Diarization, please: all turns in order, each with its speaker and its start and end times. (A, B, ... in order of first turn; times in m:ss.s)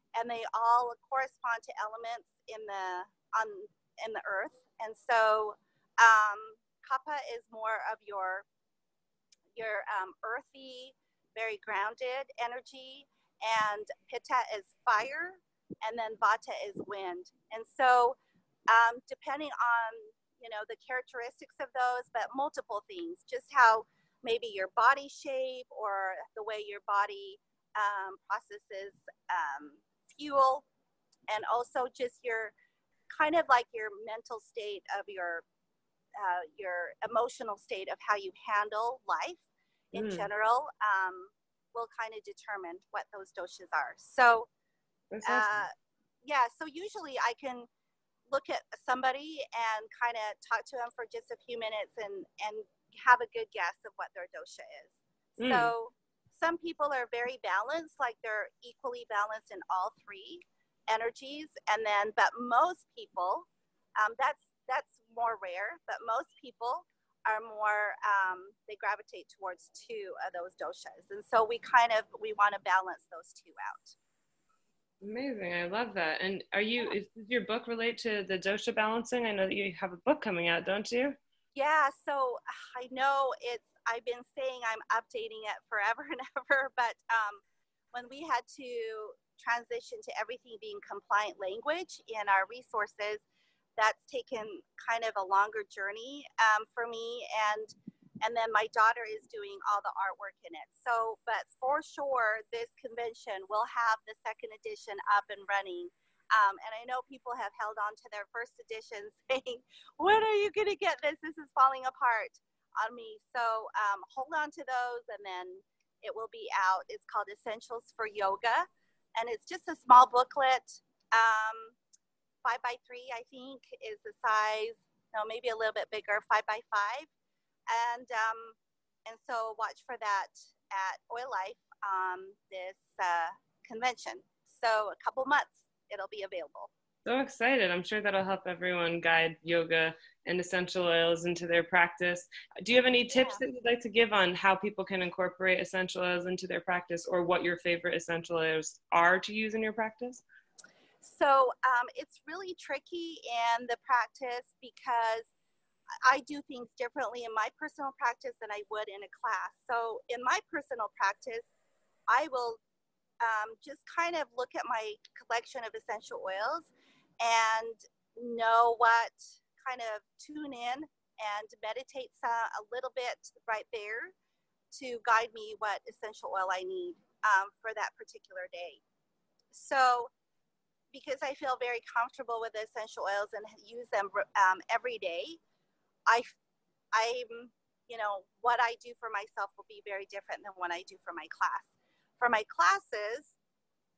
0:00.1-0:08.4 A
0:09.6-0:18.2 A
0:18.7-0:30.6 A
0:31.3-0:32.5 A
0:33.1-0:35.4 A
0:36.2-0:44.5 A
0:39.9-0:40.3 B
0:45.1-0:45.6 B
0:45.2-0:45.7 A
0:46.2-0:47.7 A
0:48.3-1:03.5 A
0:55.4-0:55.7 B
1:04.0-1:14.0 A
1:15.0-1:21.2 B
1:21.5-1:27.4 A
1:27.9-1:33.2 A
1:33.8-2:01.8 A
2:02.4-2:07.1 A
2:07.7-2:16.7 A
2:17.0-2:30.2 B
2:23.1-2:23.4 A
2:31.0-2:35.3 A
2:36.0-2:41.4 A
2:42.1-2:42.6 A
2:43.2-2:54.1 A
2:54.7-2:58.8 A
2:59.5-3:00.1 A
3:00.9-3:05.4 A
3:06.9-3:13.3 A